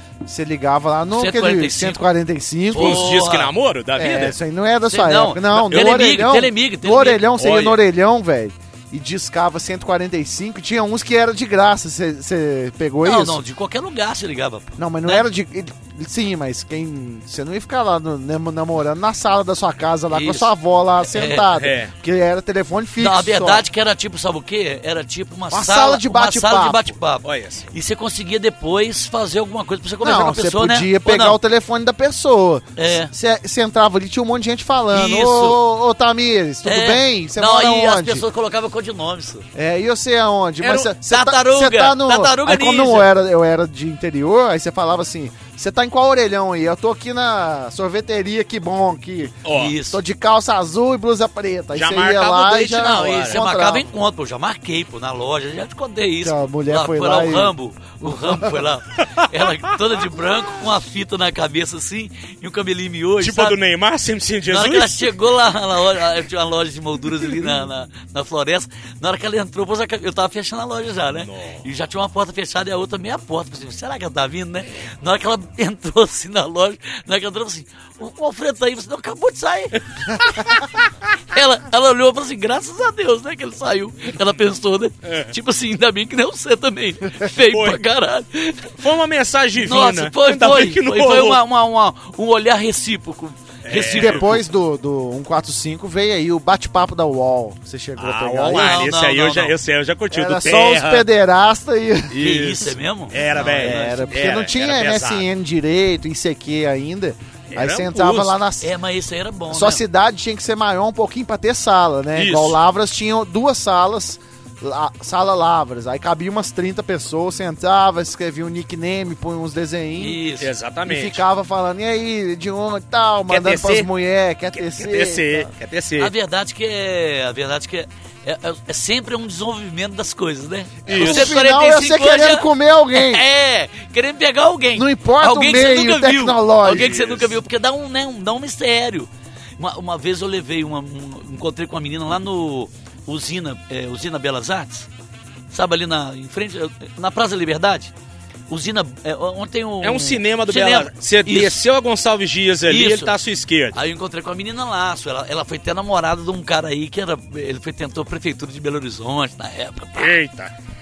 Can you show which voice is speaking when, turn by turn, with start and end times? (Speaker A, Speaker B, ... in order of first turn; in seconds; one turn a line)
Speaker A: 0.2-3.1
Speaker B: 1.1-2.0
Speaker B: 2.7-3.5
Speaker C: 2.7-4.3
Speaker A: 3.9-13.4
Speaker B: 4.8-7.7
Speaker B: 13.0-15.2
Speaker A: 14.8-23.6
Speaker B: 20.1-20.5
Speaker B: 21.0-21.5
Speaker C: 21.5-21.9
Speaker B: 23.0-31.4
Speaker A: 25.5-26.9
Speaker C: 27.2-27.7
Speaker A: 30.0-38.2
Speaker B: 32.8-33.1
Speaker B: 34.9-35.6
Speaker B: 36.6-39.5
Speaker A: 39.5-53.9
Speaker B: 40.6-43.1
Speaker C: 49.4-49.7
Speaker B: 49.5-50.0
Speaker C: 51.7-53.4
Speaker B: 52.7-63.6
Speaker A: 56.2-57.5
Speaker C: 59.0-59.3
Speaker C: 63.2-65.1
Speaker B: 64.5-80.6
Speaker C: 71.1-71.6
Speaker C: 80.3-80.6
Speaker B: 81.3-88.7
Speaker C: 85.0-85.3
Speaker C: 87.3-87.8
Speaker C: 88.8-91.4
Speaker B: 89.6-94.4
Speaker C: 93.6-94.4
Speaker A: 93.9-98.8
Speaker C: 98.0-101.0
Speaker B: 98.5-99.5
Speaker A: 100.1-102.2
Speaker C: 102.1-105.2
Speaker B: 102.2-104.2
Speaker A: 103.3-108.7
Speaker C: 107.5-108.4
Speaker B: 108.6-109.8
Speaker A: 109.5-120.2
Speaker C: 112.1-112.6
Speaker B: 120.0-120.5
Speaker C: 120.4-121.2
Speaker A: 120.8-125.5
Speaker C: 123.3-123.9
Speaker C: 124.7-126.1
Speaker B: 126.0-144.9
Speaker C: 130.8-131.4
Speaker A: 130.9-133.2
Speaker A: 134.7-137.0
Speaker C: 136.7-137.3
Speaker B: 145.5-147.9
Speaker B: 148.5-151.6
Speaker C: 149.8-153.8
Speaker B: 152.7-153.1
Speaker B: 153.7-160.2
Speaker C: 160.0-160.5